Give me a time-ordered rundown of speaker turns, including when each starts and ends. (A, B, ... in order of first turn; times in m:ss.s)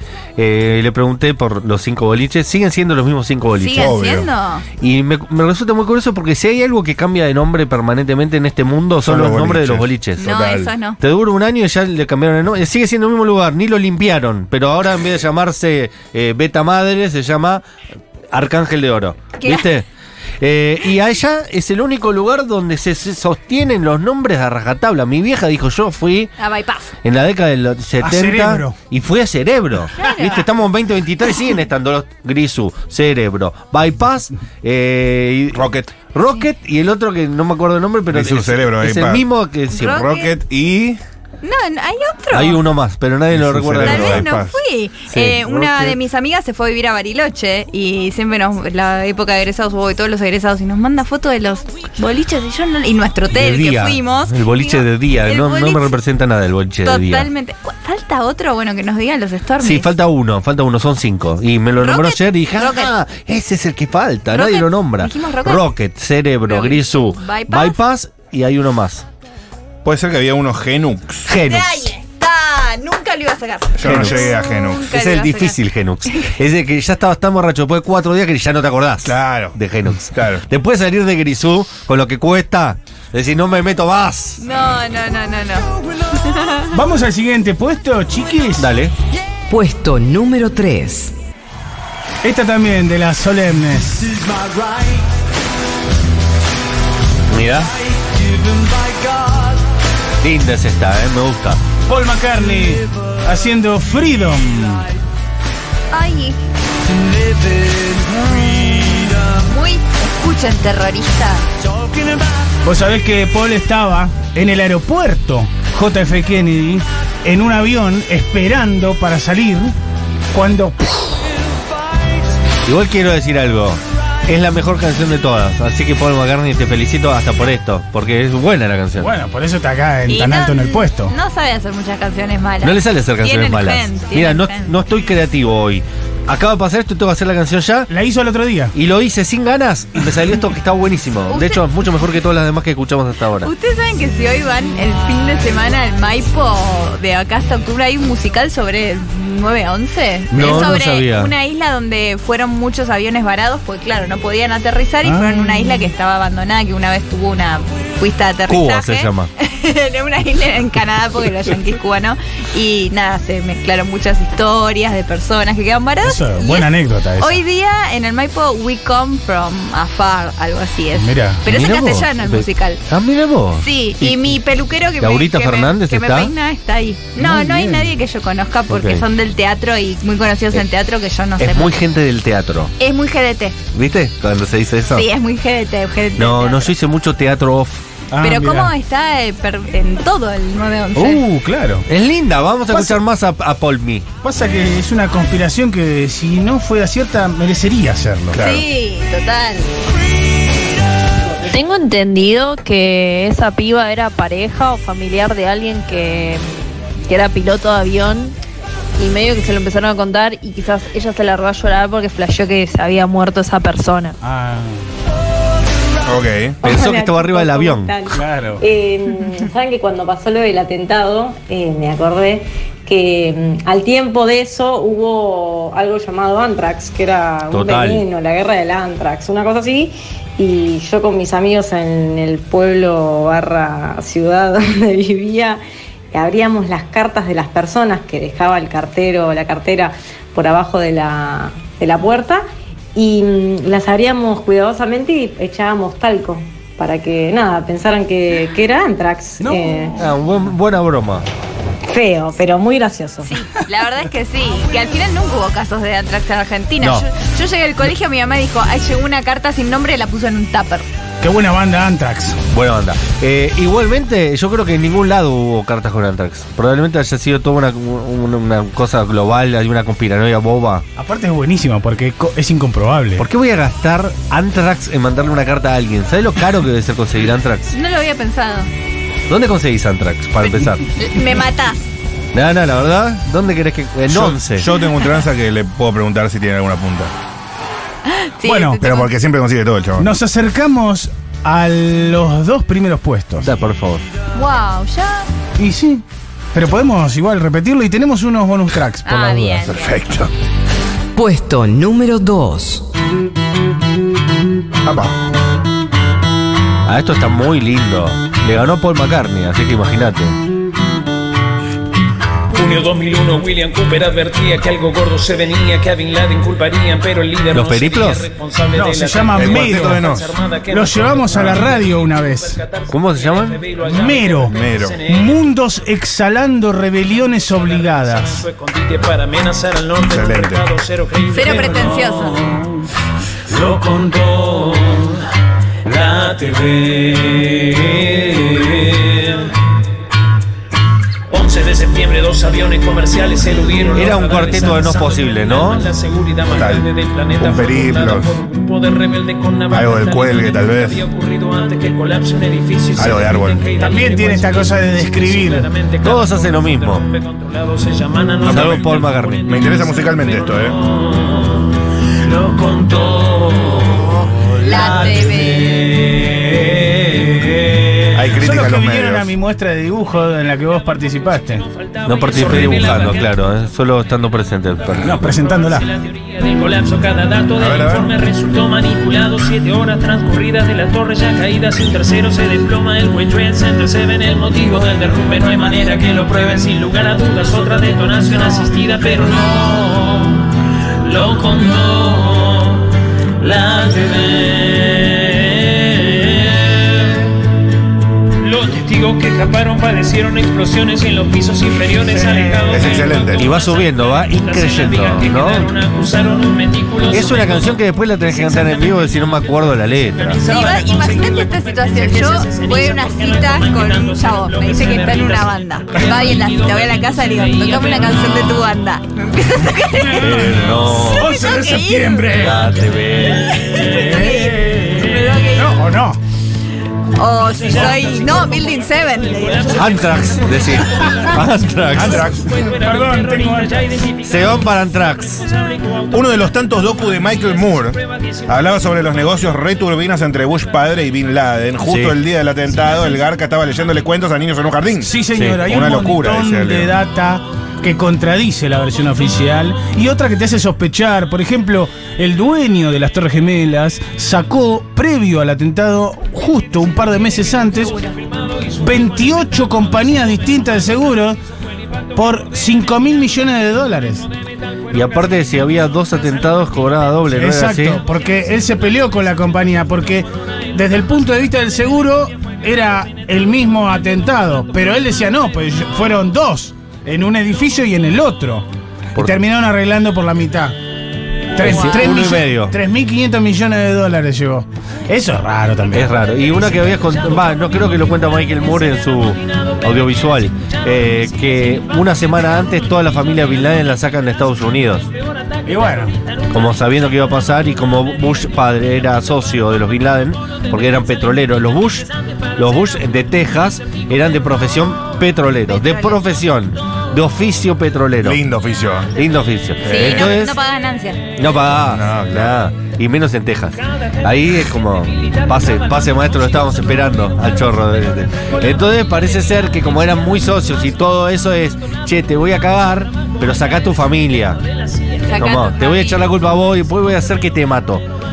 0:00.4-0:04.0 A
0:03.6-0:04.6 B
0:03.7-0:04.3 C
0:04.8-0:10.4 A
0:09.0-0:10.7 C
0:10.2-0:11.0 B
0:11.0-0:17.6 A
0:18.3-0:19.8 A
0:19.4-0:19.7 B
0:20.4-0:26.3 A
0:26.4-0:26.9 B
0:27.0-0:40.1 A
0:28.0-0:28.8 D
0:30.0-0:30.5 B
0:35.5-0:35.9 C
0:38.1-0:39.3 C
0:39.7-0:40.3 B
0:39.8-0:41.0 C
0:41.4-0:42.6 B
0:42.3-0:44.2 A
0:43.3-0:44.6 C
0:43.8-0:55.9 B
0:45.1-0:46.0 A
0:53.3-0:57.3 A
0:56.8-0:59.8 B
0:59.6-1:09.0 A
1:01.8-1:02.9 B
1:04.3-1:05.7 B
1:06.4-1:07.8 B
1:09.8-1:11.3 C
1:11.3-1:11.9 A
1:11.3-1:15.6 B
1:13.8-1:14.9 C
1:13.8-1:14.3 A
1:14.9-1:24.4 A
1:19.0-1:19.6 C
1:20.1-1:20.4 C
1:24.4-1:26.6 B
1:26.7-1:28.7 D
1:28.6-1:28.9 A
1:29.5-1:31.1 E
1:32.2-1:34.2 D
1:37.3-1:37.7 A
1:40.2-1:41.6 A
1:41.9-1:44.8 D
1:45.9-1:46.4 B
1:48.3-1:51.4 B
1:52.6-1:59.7 D
2:00.3-2:01.2 D
2:02.6-2:09.1 A
2:09.0-2:11.1 D
2:10.1-2:14.7 B
2:12.6-2:17.9 A
2:17.9-2:18.7 D
2:18.7-2:23.5 A
2:21.3-2:21.6 B
2:23.4-2:46.7 B
2:30.3-2:31.3 A
2:30.4-2:30.6 D
2:35.0-2:35.9 D
2:38.5-2:39.3 A
2:46.0-2:47.4 D
2:47.2-2:52.8 B
2:51.0-2:51.4 D
2:51.4-2:54.4 A
2:53.6-3:01.7 B
2:55.0-2:56.3 A
2:57.2-2:57.9 D
2:58.7-2:59.0 A
3:01.4-3:02.7 A
3:02.8-3:03.6 B
3:03.7-3:05.0 A
3:04.9-3:06.7 B
3:06.2-3:07.8 A
3:08.1-3:08.7 D
3:08.2-3:11.2 B
3:11.0-3:11.8 D
3:11.9-3:14.0 A
3:12.7-3:13.0 D
3:14.2-3:18.4 D
3:18.3-3:18.7 C
3:18.4-3:19.7 B
3:21.4-3:26.4 F
3:27.0-3:28.4 F
3:29.0-3:34.2 F
3:34.2-3:34.8 D
3:36.0-3:36.6 C
3:36.6-3:38.0 A
3:36.6-3:55.6 G
3:38.1-3:38.6 D
3:47.5-3:48.0 A
3:56.1-4:02.4 G
4:02.9-4:10.0 G
4:09.4-4:10.0 D
4:10.0-4:11.2 A
4:11.8-4:13.3 G
4:13.2-4:20.9 B
4:16.8-4:17.0 A
4:21.2-4:22.4 D
4:22.5-4:30.8 A
4:31.0-4:33.2 D
4:33.2-4:37.7 A
4:37.7-4:38.7 B
4:39.3-4:40.8 A
4:40.4-4:41.9 B
4:42.3-4:44.6 A
4:44.1-4:47.1 C
4:48.0-4:49.1 B
4:48.4-4:48.8 D
4:48.8-4:50.1 C
4:50.0-4:53.5 D
4:53.4-4:54.0 A
4:54.3-4:55.3 B
4:55.6-4:56.0 D
4:56.5-4:59.7 D
4:59.0-5:00.0 B
4:59.6-5:00.3 C
5:01.2-5:02.8 E
5:04.8-5:05.2 C
5:06.8-5:10.4 A
5:12.5-5:25.4 H
5:17.5-5:18.3 A
5:18.7-5:20.1 D
5:19.4-5:20.4 C
5:20.7-5:22.6 D
5:21.3-5:21.7 C
5:22.9-5:23.6 A
5:23.8-5:28.4 D
5:24.5-5:25.0 C
5:27.3-5:32.6 H
5:30.0-5:30.6 C
5:31.3-5:32.4 B
5:33.5-5:34.1 D
5:33.6-5:35.1 H
5:35.9-5:39.3 H
5:41.3-6:01.5 H
5:43.9-5:45.9 A
5:46.5-5:46.8 C
5:47.4-5:48.3 C
5:49.7-5:51.0 C
5:53.0-5:53.6 C
5:53.8-5:55.7 D
5:56.0-5:57.0 A
5:58.4-6:00.8 C
5:58.4-5:59.5 A
6:02.3-6:04.1 H
6:04.6-6:07.5 D
6:04.6-6:05.8 B
6:08.1-6:09.3 C
6:08.3-6:11.6 D
6:11.7-6:13.4 H
6:12.0-6:15.2 A
6:15.0-6:15.8 D
6:15.0-6:30.4 H
6:17.5-6:18.1 C
6:31.0-6:32.8 H
6:33.4-6:37.1 H
6:38.4-6:49.0 H
6:42.0-6:43.1 D
6:42.7-6:43.5 C
6:43.4-6:45.7 A
6:47.1-6:50.4 A
6:50.2-6:58.6 H
6:50.4-7:02.5 B
6:59.9-7:02.6 D
7:00.2-7:01.3 A
7:02.4-7:03.6 A
7:03.5-7:05.8 B
7:03.8-7:06.2 D
7:07.1-7:09.8 B
7:07.4-7:14.9 H
7:09.7-7:12.3 A
7:10.8-7:11.4 D
7:11.9-7:12.6 C
7:11.9-7:14.0 D
7:14.2-7:15.4 A
7:15.4-7:18.5 H
7:16.1-7:26.9 C
7:21.8-7:22.2 A
7:25.0-7:38.0 D
7:38.1-7:39.5 H
7:38.8-7:41.4 D
7:42.1-7:44.3 D
7:44.9-7:48.0 A
7:47.3-8:00.8 D
8:01.5-8:06.1 D
8:01.6-8:02.8 A
8:05.9-8:15.1 A
8:15.6-8:16.1 D
8:16.5-8:28.4 A
8:25.7-8:26.2 B
8:28.2-8:29.2 C
8:29.1-8:30.5 A
8:29.8-8:31.3 B
8:29.8-8:30.3 C
8:31.4-8:44.6 A
8:31.7-8:32.7 C
8:35.2-8:36.2 H
8:45.2-8:46.3 B
8:45.4-8:48.0 A